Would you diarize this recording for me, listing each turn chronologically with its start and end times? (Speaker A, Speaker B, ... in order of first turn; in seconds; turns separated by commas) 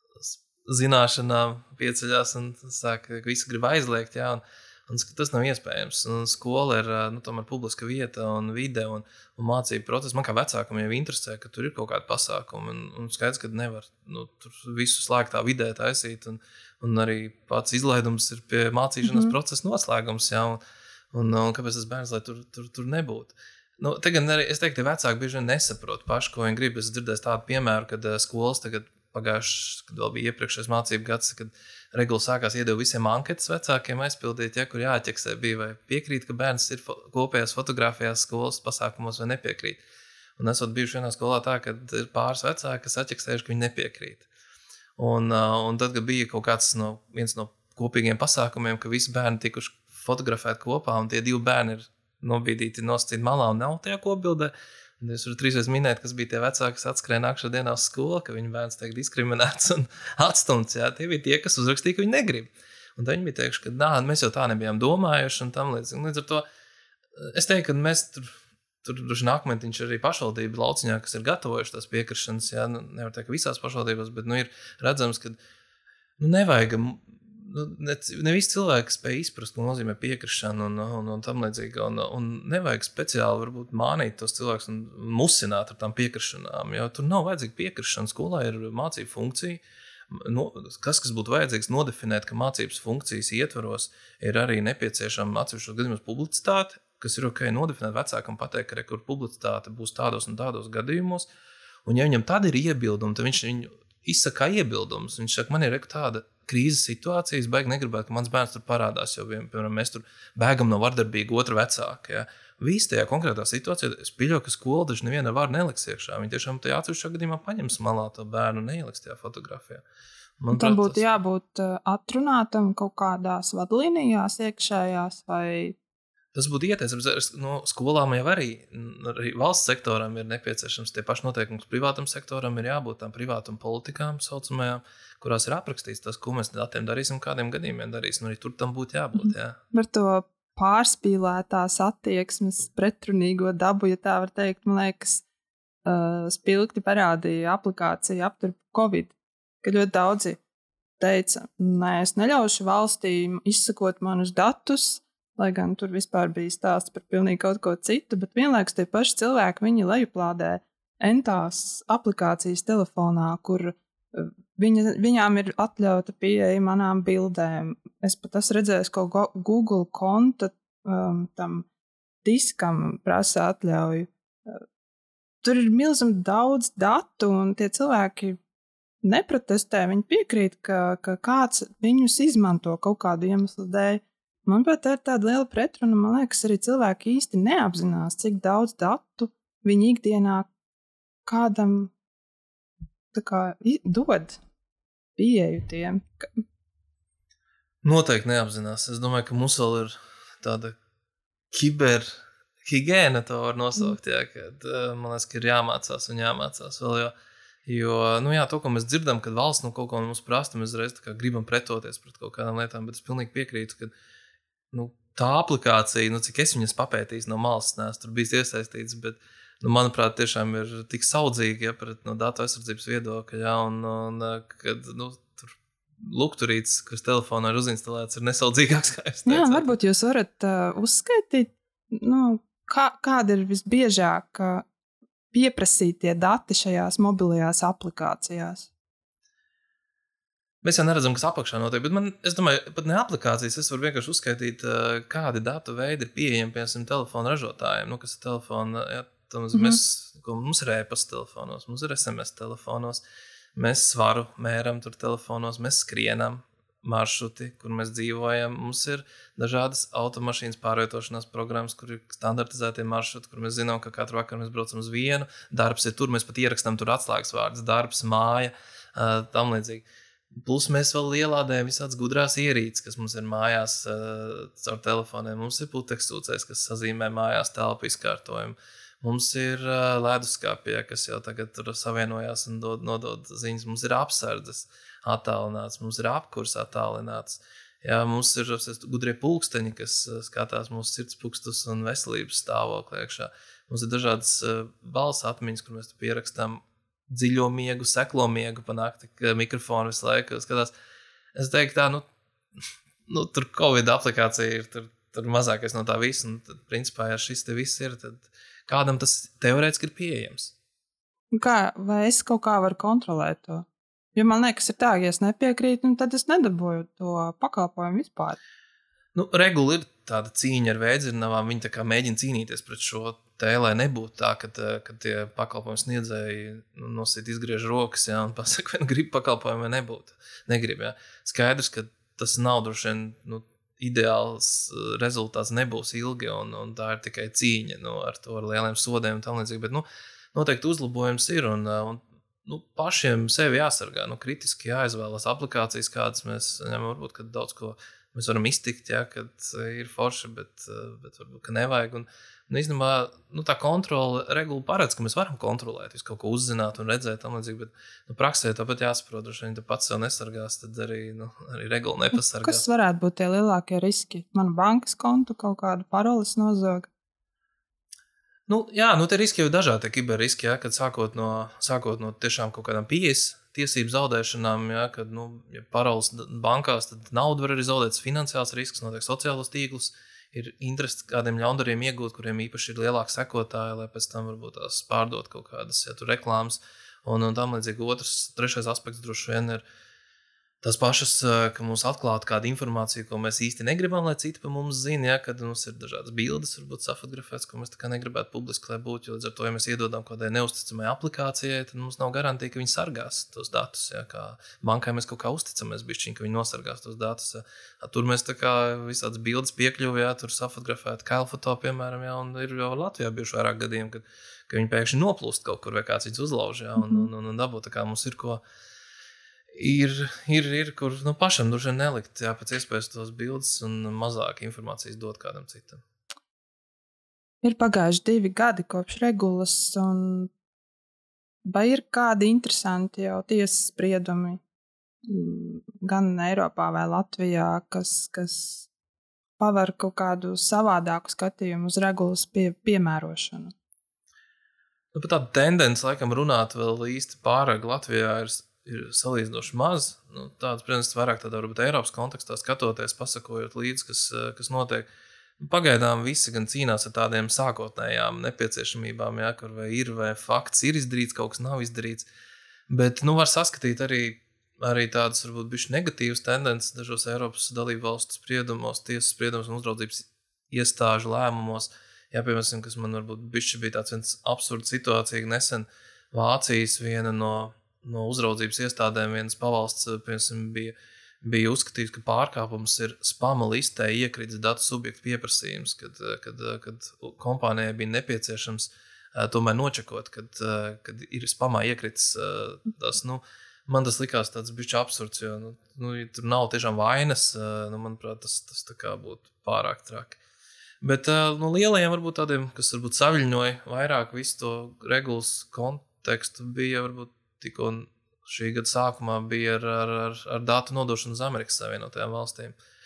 Speaker A: 0.2-20.6, Speaker B: 19.1-19.3, Speaker A: 21.1-39.8, Speaker A: 40.4-44.3, Speaker A: 45.0-66.5, Speaker A: 67.2-68.3, Speaker A: 68.8-75.4, Speaker A: 76.2-101.3, Speaker A: 101.9-119.8, Speaker A: 120.4-121.0, Speaker B: 120.5-125.8, Speaker A: 126.3-139.6, Speaker B: 139.2-145.2, Speaker B: 145.9-150.4, Speaker B: 151.0-171.7, Speaker B: 172.2-174.6, Speaker B: 175.4-178.4, Speaker B: 179.0-190.5, Speaker B: 191.3-191.9, Speaker B: 193.1-194.4, Speaker B: 195.2-196.3, Speaker A: 197.8-200.8, Speaker A: 201.5-207.1, Speaker A: 207.7-213.9, Speaker A: 214.7-229.7, Speaker B: 229.3-234.7, Speaker B: 235.3-238.7, Speaker A: 240.6-253.0, Speaker B: 249.5-249.8, Speaker A: 253.6-300.7, Speaker A: 301.4-302.1, Speaker A: 303.1-310.5, Speaker B: 311.3-318.4, Speaker A: 319.1-362.6, Speaker B: 362.4-366.9, Speaker A: 368.5-389.6, Speaker A: 390.6-418.4, Speaker B: 416.8-417.1, Speaker A: 419.6-425.8, Speaker B: 427.4-430.3, Speaker B: 431.5-434.4, Speaker B: 435.1-438.7, Speaker B: 439.4-443.5, Speaker A: 444.9-454.9, Speaker A: 455.4-462.1, Speaker A: 462.7-500.2, Speaker A: 500.8-512.5